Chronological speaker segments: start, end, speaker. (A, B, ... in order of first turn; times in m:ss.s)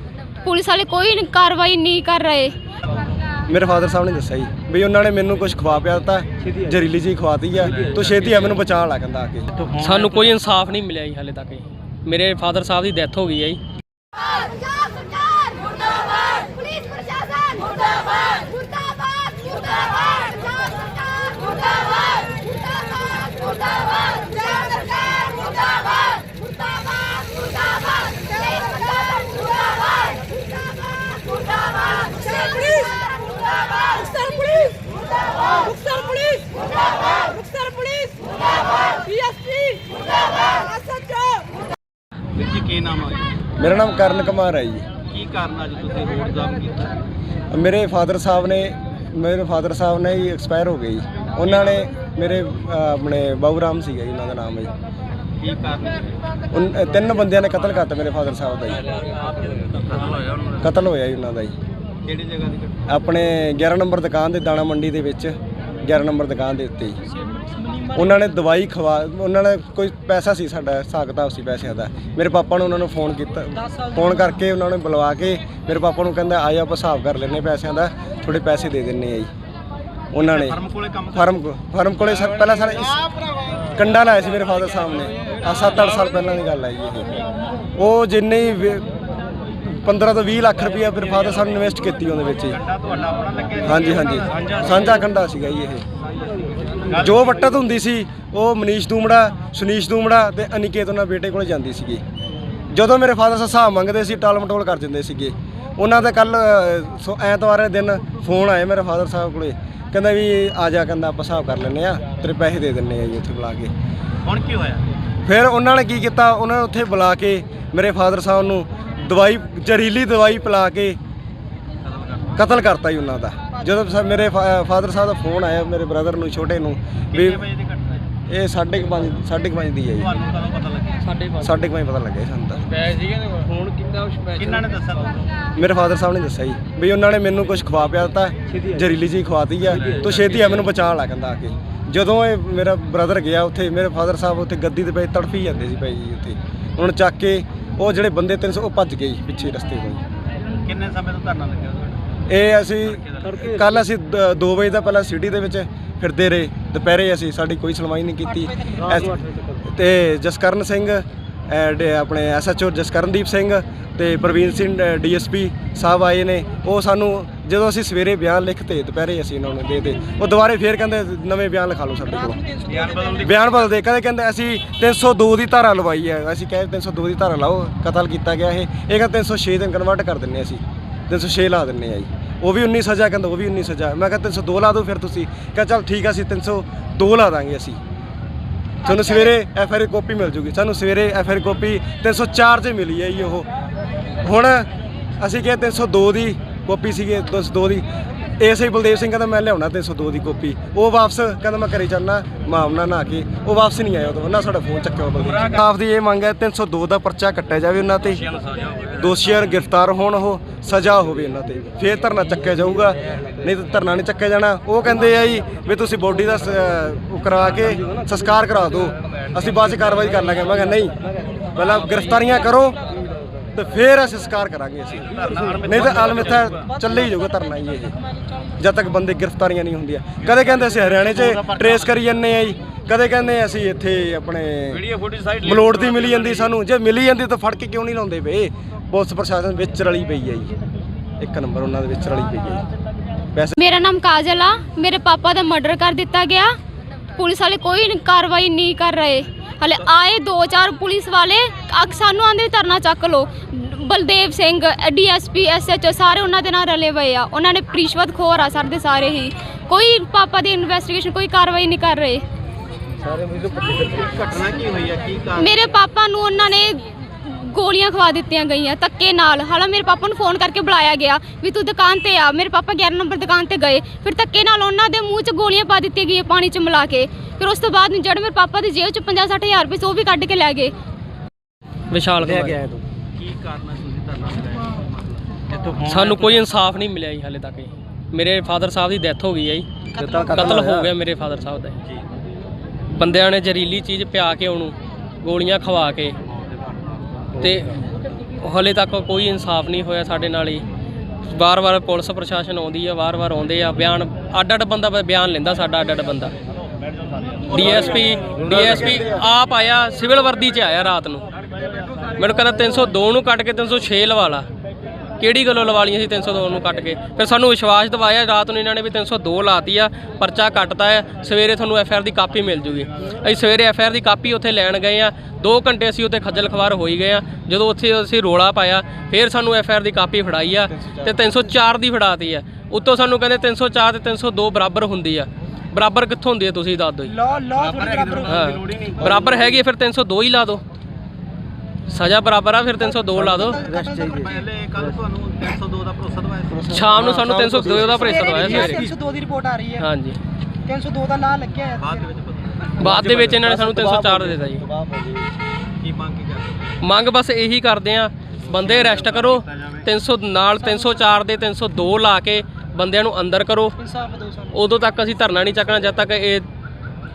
0:00.4-0:02.5 A
0:03.5-0:09.7 B
0:09.8-0:13.6 C
0:16.8-0:17.6 A
0:18.6-0:19.4 A
0:24.4-0:24.8 A
0:34.1-0:34.8 D
0:35.5-0:36.5 D
0:37.2-0:38.2 D
0:39.0-0:39.9 D
0:40.6-0:41.4 D
0:42.3-0:43.3 E
0:43.6-0:44.9 B
0:45.1-0:47.0 E
0:47.5-0:54.7 B
0:55.4-0:56.1 E
0:56.5-0:58.9 B
0:59.5-1:00.4 E
1:00.5-1:01.5 B
1:02.0-1:02.8 E
1:02.9-1:07.0 B
1:07.3-1:08.0 D
1:07.9-1:19.3 B
1:20.1-1:20.6 B
1:20.2-1:21.3 E
1:21.1-1:23.0 B
1:23.7-1:27.2 B
1:27.8-1:28.9 B
1:29.6-1:32.6 B
1:32.6-1:34.8 E
1:33.6-1:35.8 B
1:36.7-1:37.1 E
1:36.9-1:42.0 B
1:42.7-1:53.7 B
1:54.2-1:54.8 E
1:55.2-2:01.0 B
2:01.9-2:02.3 E
2:02.4-2:07.4 B
2:07.1-2:08.0 E
2:08.3-2:10.1 B
2:10.0-2:11.2 E
2:11.4-2:12.7 B
2:13.3-2:14.3 C
2:14.3-2:15.2 E
2:15.6-2:30.0 B
2:30.6-2:32.0 E
2:32.3-2:52.4 B
2:32.9-2:33.3 E
2:52.2-2:53.2 D
2:52.7-2:53.7 E
2:53.2-3:07.8 B
3:08.8-3:13.5 B
3:14.2-3:17.8 B
3:18.4-3:28.3 B
3:28.9-3:41.0 B
3:41.5-3:42.8 B
3:43.5-3:48.0 B
3:45.2-3:46.6 E
3:48.6-4:00.5 B
3:50.3-3:51.9 E
3:54.8-3:56.3 E
4:01.2-4:02.6 B
4:03.6-4:06.5 A
4:07.2-4:22.2 A
4:23.7-4:25.5 E
4:25.4-4:40.7 A
4:41.9-4:42.6 C
4:42.3-4:42.8 B
4:43.1-4:46.0 E
4:45.8-4:51.8 C
4:49.9-4:50.9 B
4:52.9-4:56.2 C
4:57.4-4:57.8 C
4:58.4-5:00.6 C
5:01.2-5:06.3 C
5:07.5-5:09.2 B
5:07.5-5:11.2 C
5:12.2-5:14.5 C
5:15.2-5:37.2 C
5:30.7-5:31.3 B
5:37.1-5:38.5 D
5:37.7-5:39.6 B
5:38.2-5:40.6 C
5:41.9-5:43.7 C
5:43.0-5:44.4 D
5:43.7-5:44.1 B
5:44.1-5:46.7 E
5:46.5-5:48.9 B
5:46.7-5:48.9 C
5:48.1-5:49.9 D
5:49.8-5:50.2 C
5:50.6-5:52.0 D
5:51.7-5:52.9 E
5:52.8-5:54.6 C
5:52.8-5:55.3 B
5:55.8-5:56.7 E
5:56.8-6:03.8 C
5:58.5-5:59.8 E
6:03.8-6:04.5 D
6:04.5-6:06.4 C